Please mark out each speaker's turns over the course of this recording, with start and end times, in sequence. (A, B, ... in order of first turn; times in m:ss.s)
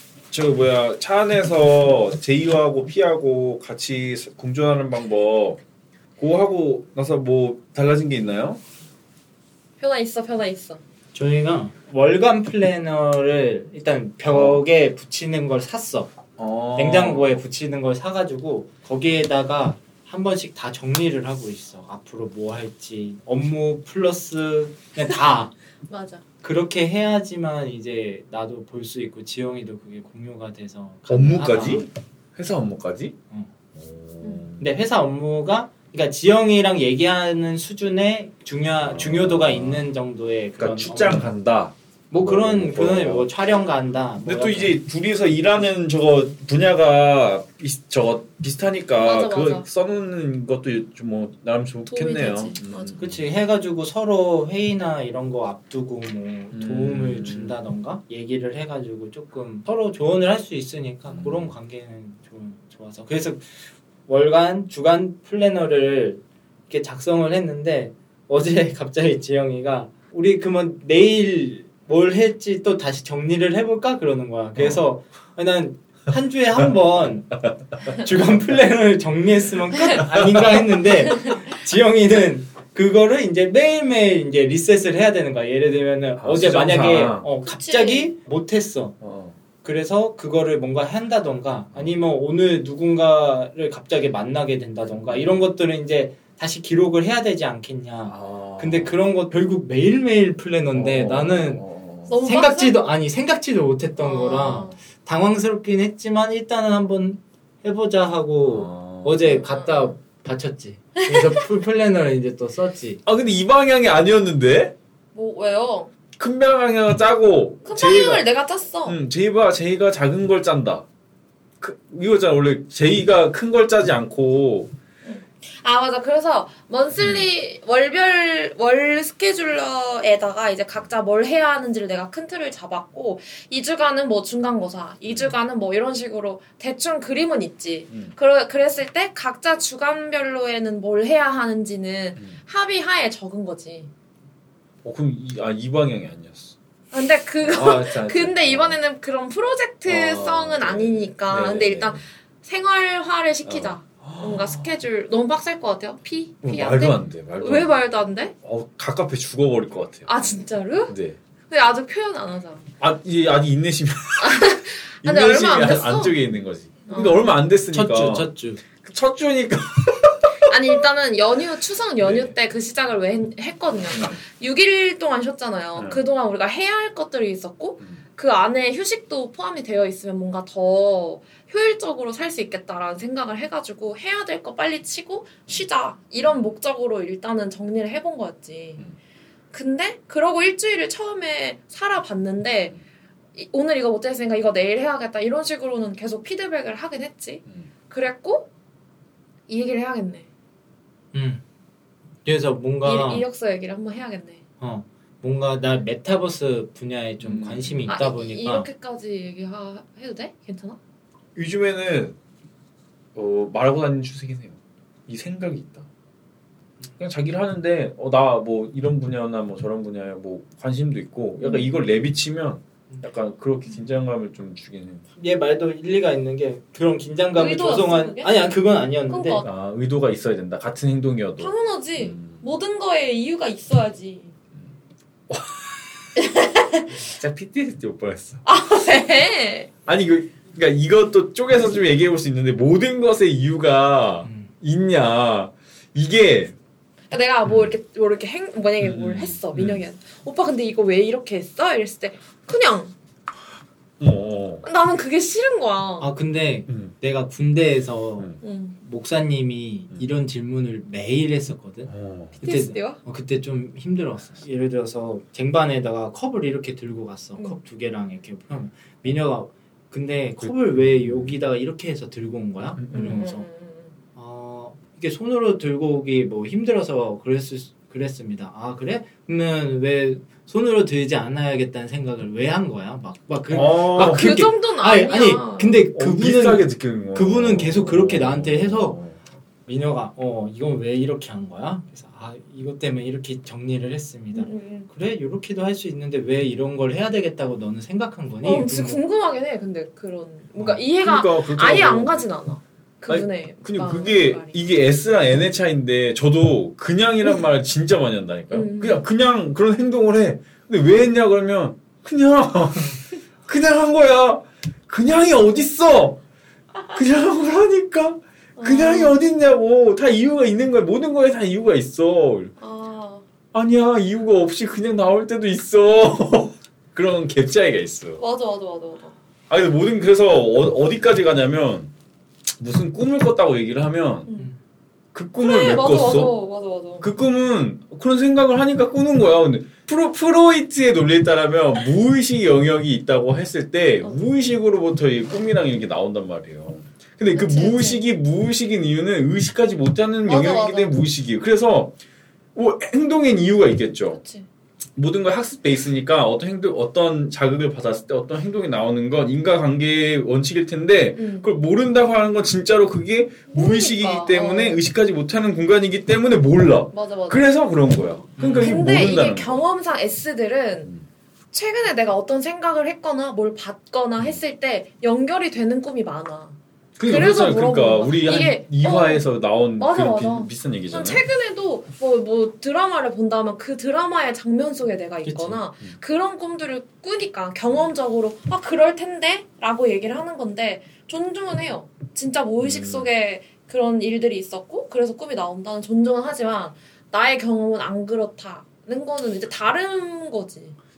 0:00.3-0:05.6 A
0:06.2-0:08.6 A
0:09.8-0:10.8 B
0:11.1-0:16.1 C
0:14.3-0:14.6 A
0:16.4-0:17.4 A
0:16.8-0:25.5 C
0:25.0-0:26.2 B
0:26.4-0:31.8 C
0:31.1-0:33.2 A
0:33.7-0:34.6 A
0:34.2-0:34.5 B
0:34.6-0:41.3 C
0:38.8-0:39.9 A
0:40.6-0:43.3 A
0:42.1-0:44.8 C
0:44.2-0:53.2 A
0:49.0-0:49.6 B
0:51.9-0:53.0 B
0:53.0-1:03.6 C
0:56.5-0:57.6 A
1:01.1-1:01.5 A
1:04.1-1:29.0 C
1:17.4-1:18.1 A
1:19.7-1:20.0 B
1:21.0-1:21.5 B
1:26.2-1:27.3 A
1:27.4-1:28.1 B
1:29.0-1:29.4 A
1:29.6-1:41.6 C
1:34.9-1:35.4 A
1:38.1-1:39.0 A
1:40.7-1:42.2 A
1:42.1-1:42.8 B
1:42.2-1:53.0 C
1:44.0-1:44.8 B
1:48.5-1:49.2 A
1:49.2-1:50.0 B
1:51.0-1:51.4 B
1:53.0-1:54.7 A
1:55.1-1:55.9 B
1:56.2-1:58.3 A
1:57.6-1:59.0 B
1:58.8-2:00.8 A
2:01.6-2:04.7 A
2:05.0-2:23.9 B
2:07.0-2:07.3 A
2:15.0-2:15.3 A
2:17.9-2:18.1 A
2:24.8-2:26.5 A
2:26.9-2:38.3 B
2:27.4-2:28.8 A
2:29.8-2:32.0 A
2:33.4-2:34.7 A
2:36.4-2:37.8 A
2:38.4-2:40.1 A
2:40.1-2:40.9 B
2:40.9-2:41.2 A
2:41.5-2:42.7 B
2:42.8-2:44.5 A
2:44.2-2:46.2 B
2:45.0-2:50.5 A
2:46.9-2:47.3 B
2:47.7-2:48.6 C
2:50.5-3:08.8 B
2:52.0-2:52.3 A
2:53.9-2:54.2 A
2:55.8-2:56.0 A
3:09.5-3:12.7 B
3:13.4-3:18.5 B
3:19.5-3:20.3 B
3:21.1-3:21.4 C
3:22.2-3:23.2 C
3:22.8-3:24.4 B
3:24.6-3:28.7 C
3:27.2-3:27.8 A
3:27.9-3:30.8 B
3:31.4-3:32.2 A
3:33.1-3:35.9 A
3:37.0-3:45.0 A
3:41.4-3:41.7 B
3:45.2-3:49.4 C
3:47.3-3:48.5 B
3:49.1-3:49.5 B
3:49.4-3:52.4 A
3:51.4-3:54.3 B
3:55.3-3:55.8 A
3:56.2-3:56.9 B
3:56.9-3:58.4 A
3:58.4-3:59.7 B
3:59.8-4:06.6 A
4:04.2-4:04.5 C
4:07.1-4:12.9 B
4:07.4-4:07.7 A
4:08.8-4:09.8 A
4:14.0-4:14.6 A
4:14.6-4:16.1 B
4:16.0-4:33.4 C
4:16.7-4:16.9 A
4:18.4-4:18.8 B
4:21.9-4:22.4 A
4:22.4-4:23.0 B
4:30.4-4:31.3 A
4:32.8-4:33.2 A
4:32.9-4:33.9 B
4:34.2-4:49.0 C
4:43.5-4:44.5 A
4:44.0-4:45.8 B
4:45.9-4:49.2 A
4:49.7-4:59.0 C
4:54.3-4:54.9 B
4:58.4-5:04.6 B
5:00.6-5:02.2 A
5:03.1-5:16.2 A
5:08.5-5:09.0 B
5:16.9-5:22.5 A
5:18.6-5:19.2 B
5:22.6-5:23.2 B
5:23.5-5:28.2 A
5:28.2-5:29.1 B
5:29.5-5:31.9 A
5:32.6-5:34.3 A
5:35.1-5:36.4 A
5:35.4-5:37.0 B
5:37.0-5:51.9 A
5:47.3-5:48.1 B
5:50.2-5:51.0 B
5:52.5-5:54.2 A
5:54.1-5:54.4 B
5:55.0-6:09.6 A
6:01.1-6:01.5 B
6:03.5-6:04.8 B
6:06.9-6:07.4 B
6:08.4-6:08.8 C
6:08.6-6:10.9 B
6:11.5-6:19.2 B
6:17.0-6:21.2 A
6:19.8-6:40.8 B
6:25.2-6:25.6 C
6:32.6-6:33.1 A